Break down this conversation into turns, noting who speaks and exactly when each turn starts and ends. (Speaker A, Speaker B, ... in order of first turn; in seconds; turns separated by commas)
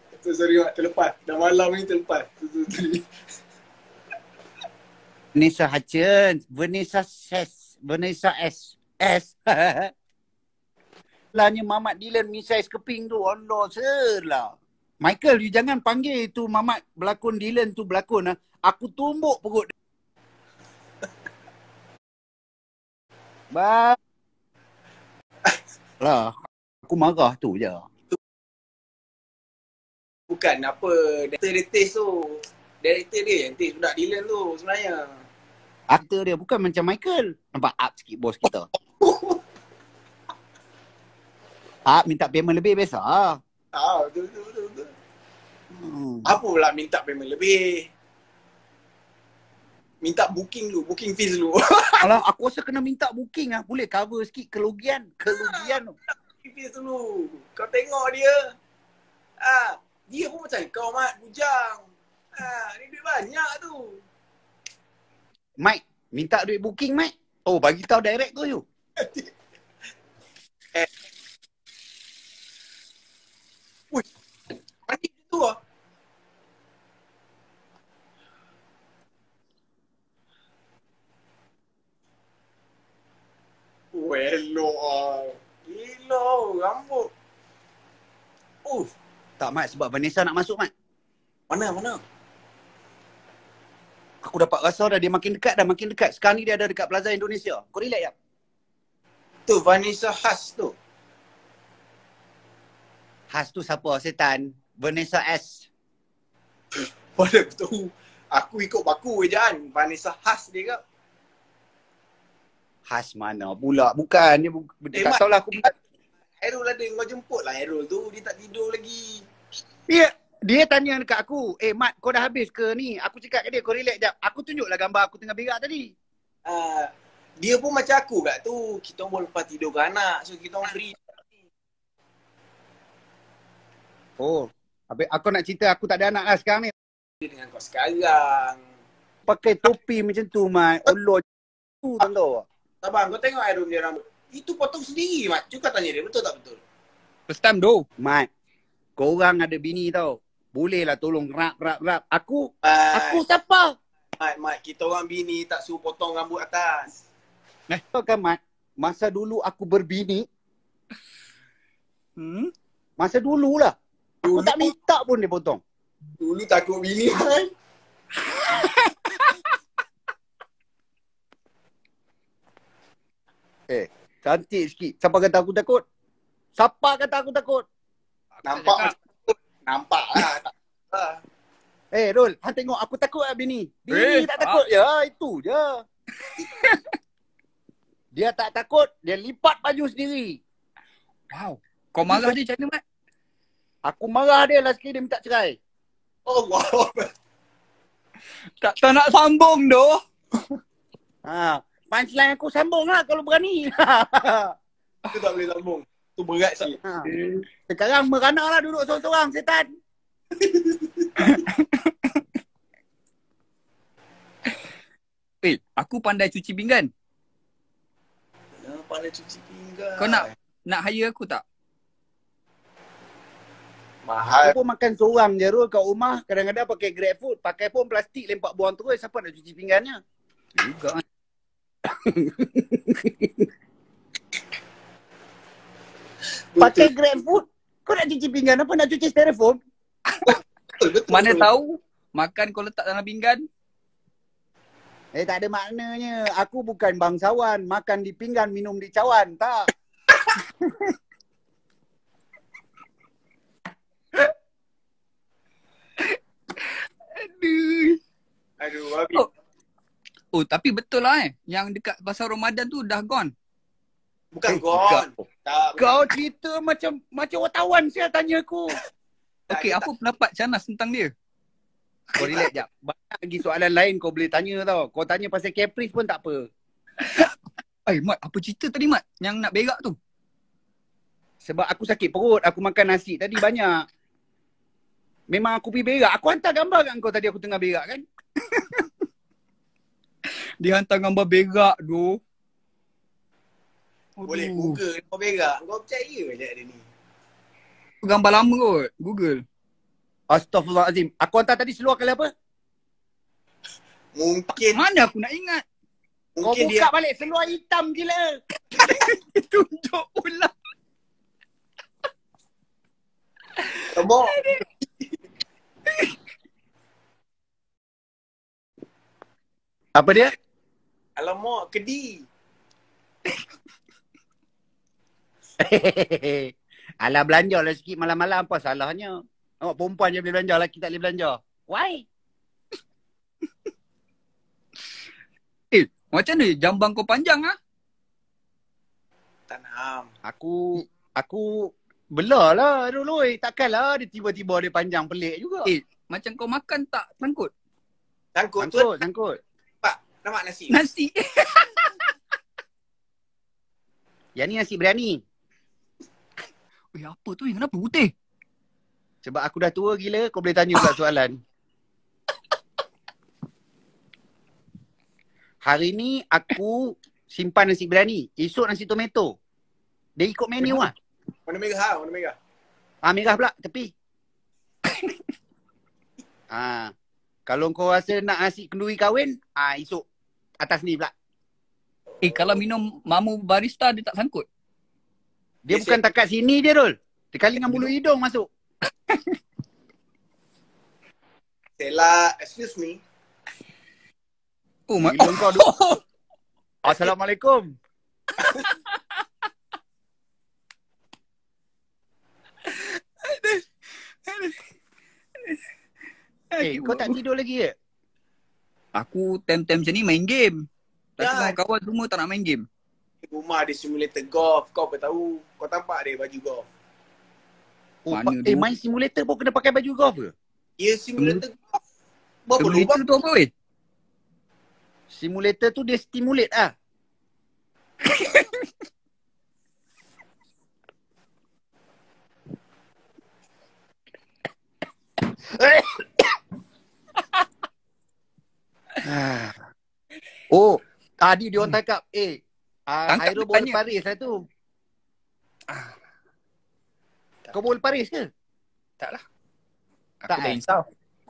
Speaker A: 0.2-3.1, Speaker B: 5.3-9.9, Speaker B: 11.3-19.7, Speaker B: 23.5-24.0, Speaker B: 26.0-27.8, Speaker A: 30.3-35.1, Speaker B: 35.9-38.7, Speaker A: 39.0-39.4, Speaker B: 41.9-43.4, Speaker A: 43.7-44.9, Speaker B: 45.8-46.3, Speaker A: 46.2-47.9, Speaker A: 50.0-52.1, Speaker B: 52.0-56.0, Speaker A: 55.4-55.7, Speaker A: 56.4-58.5, Speaker A: 59.4-61.8, Speaker A: 62.4-64.0, Speaker B: 65.6-68.6, Speaker A: 69.0-69.3, Speaker A: 74.9-75.6, Speaker A: 83.9-87.1, Speaker A: 88.7-88.9, Speaker B: 89.4-90.7, Speaker A: 91.5-92.0, Speaker B: 94.2-98.1, Speaker A: 99.5-100.7, Speaker B: 103.3-105.7, Speaker A: 106.7-110.8, Speaker B: 112.9-115.7, Speaker A: 116.4-119.2, Speaker B: 119.9-125.9, Speaker A: 126.5-131.1, Speaker B: 134.2-136.7, Speaker A: 137.2-138.6, Speaker B: 139.3-141.2, Speaker B: 141.8-142.4, Speaker A: 142.8-146.6, Speaker C: 147.3-147.8, Speaker B: 148.0-148.3, Speaker B: 149.0-153.7, Speaker A: 152.6-153.2, Speaker A: 154.2-156.9, Speaker B: 157.7-160.3, Speaker C: 162.2-162.5, Speaker B: 163.0-163.8, Speaker A: 164.2-164.7, Speaker B: 164.3-165.6, Speaker A: 166.2-167.5, Speaker C: 168.4-169.4, Speaker B: 173.7-175.8, Speaker B: 176.6-177.7, Speaker C: 178.4-178.9, Speaker A: 178.5-181.2, Speaker B: 181.9-185.8, Speaker C: 183.9-184.6, Speaker B: 188.1-190.4, Speaker C: 191.3-192.8, Speaker B: 192.1-192.3, Speaker B: 193.9-195.6, Speaker A: 196.3-197.1, Speaker C: 198.6-200.0, Speaker B: 201.3-204.5, Speaker A: 205.1-206.8, Speaker B: 206.8-209.7, Speaker A: 210.4-211.4, Speaker C: 211.2-212.1, Speaker C: 215.4-216.9, Speaker A: 218.6-220.3, Speaker C: 220.0-221.4, Speaker A: 224.1-224.6, Speaker B: 224.4-230.0, Speaker C: 230.6-231.0, Speaker B: 231.8-233.4, Speaker A: 236.6-236.9, Speaker B: 236.6-239.6, Speaker A: 240.2-241.5, Speaker C: 241.1-243.4, Speaker B: 245.2-249.7, Speaker C: 256.0-258.0, Speaker A: 258.6-259.2, Speaker C: 260.3-263.3, Speaker A: 264.3-266.1, Speaker B: 264.5-265.1, Speaker B: 265.8-268.8, Speaker A: 269.5-269.9, Speaker C: 269.5-271.1, Speaker B: 272.2-276.5, Speaker C: 277.0-277.3, Speaker C: 277.9-280.0, Speaker B: 281.4-283.9, Speaker B: 285.3-288.0, Speaker C: 288.5-288.9, Speaker C: 290.6-292.2, Speaker C: 294.2-294.8, Speaker A: 294.3-296.8, Speaker C: 298.0-299.4, Speaker B: 300.3-302.3, Speaker A: 304.1-304.8, Speaker C: 304.7-305.6, Speaker A: 306.4-306.9, Speaker B: 306.4-308.4, Speaker C: 308.8-310.5, Speaker C: 313.6-314.6, Speaker A: 313.9-314.4, Speaker B: 320.0-320.3, Speaker A: 321.2-322.3, Speaker B: 325.6-332.1, Speaker C: 335.7-337.6, Speaker A: 339.5-340.1, Speaker B: 340.2-345.7, Speaker C: 345.7-347.5, Speaker A: 348.4-348.9, Speaker B: 348.6-349.4, Speaker A: 349.8-350.8, Speaker C: 350.7-352.0, Speaker B: 354.4-355.2, Speaker C: 356.9-358.1, Speaker B: 359.2-361.4, Speaker B: 365.6-369.3, Speaker B: 370.2-370.9, Speaker A: 371.5-372.4, Speaker B: 373.0-373.9, Speaker B: 376.5-376.9, Speaker B: 377.5-380.0, Speaker B: 380.6-381.1, Speaker C: 382.2-384.5, Speaker B: 385.7-388.5, Speaker A: 385.7-386.0, Speaker C: 389.1-389.4, Speaker A: 391.8-393.0, Speaker C: 394.9-396.0, Speaker B: 395.0-395.7, Speaker B: 396.8-397.8, Speaker C: 402.7-403.7, Speaker C: 404.2-404.6, Speaker C: 406.5-407.2, Speaker B: 406.6-407.7, Speaker C: 409.0-410.6, Speaker C: 411.2-412.6, Speaker A: 411.2-411.6, Speaker A: 413.2-416.7, Speaker B: 418.1-420.3, Speaker C: 418.1-418.7, Speaker A: 420.8-421.8, Speaker A: 422.5-423.0, Speaker C: 422.6-423.5, Speaker B: 425.1-426.7, Speaker C: 428.1-428.6, Speaker B: 435.6-436.0, Speaker B: 439.0-439.6, Speaker B: 440.5-444.5, Speaker C: 443.1-443.8, Speaker B: 447.5-448.3, Speaker C: 450.2-450.9, Speaker B: 450.3-450.6